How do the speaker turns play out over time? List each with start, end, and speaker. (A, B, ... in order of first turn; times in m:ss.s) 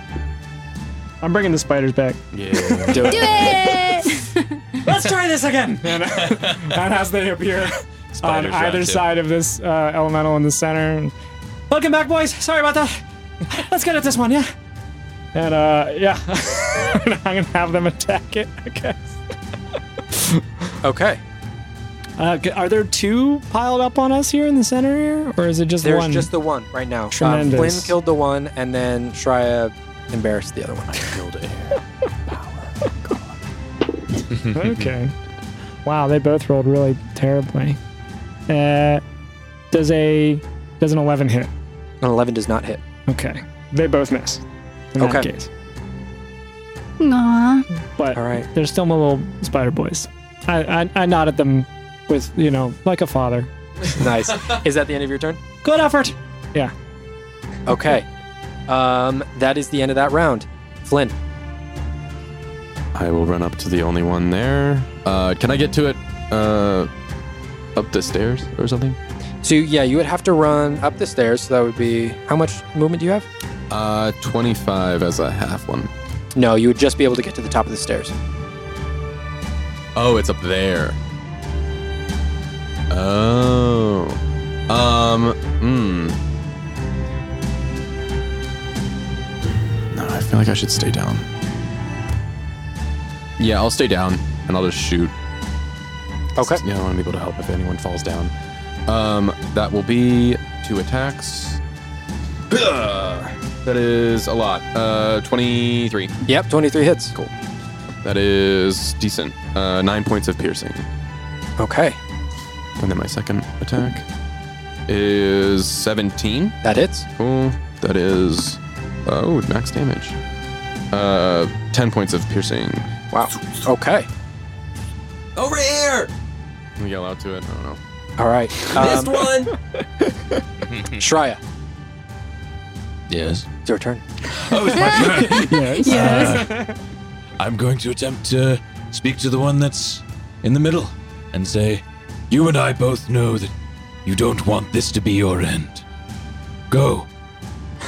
0:01.2-0:04.1 A
0:02.3-0:03.2 B
0:02.9-0:03.7 C
0:03.1-0:04.8 D
0:04.8-0:11.1 A
0:08.2-0:09.1 B
0:11.7-0:14.5 A
0:15.3-0:19.2 A
0:20.1-0:20.7 A
0:20.8-0:21.2 C
0:22.2-0:26.3 A
0:25.8-0:31.1 C
0:27.1-0:28.0 A
0:31.0-0:33.2 B
0:34.5-0:35.2 A
0:35.8-0:37.8 A
0:38.5-0:39.0 A
0:39.7-0:41.5 A
0:42.0-0:42.8 C
0:43.1-0:45.5 A
0:45.0-0:45.3 C
0:47.0-0:47.7 D
0:48.0-0:54.0 A
0:48.2-0:48.5 C
0:53.9-0:55.4 C
0:55.6-0:56.7 A
0:57.7-0:58.1 C
0:58.7-1:01.2 C
1:03.0-1:06.9 B
1:07.8-1:09.0 B
1:09.4-1:13.3 C
1:13.7-1:15.9 B
1:16.4-1:18.1 C
1:20.0-1:21.0 B
1:22.9-1:26.2 B
1:29.9-1:31.3 B
1:33.4-1:35.1 B
1:36.4-1:36.6 C
1:36.4-1:38.3 B
1:38.9-1:41.6 B
1:42.5-1:46.2 B
1:46.2-1:47.1 C
1:48.0-1:50.9 B
1:51.6-1:52.0 C
1:52.8-1:54.0 B
1:54.9-1:56.6 B
1:56.6-1:57.1 C
1:57.2-2:00.2 B
2:00.9-2:02.9 B
2:03.1-2:04.1 C
2:05.4-2:06.1 B
2:06.8-2:07.8 B
2:08.2-2:09.3 C
2:08.7-2:09.5 B
2:09.8-2:10.4 A
2:10.7-2:11.0 E
2:11.0-2:11.4 C
2:13.1-2:13.5 E
2:13.6-2:14.0 C
2:14.4-2:16.7 E
2:14.5-2:16.8 A
2:14.6-2:16.4 D
2:17.4-2:23.5 E
2:24.0-2:25.8 E
2:26.7-2:27.1 E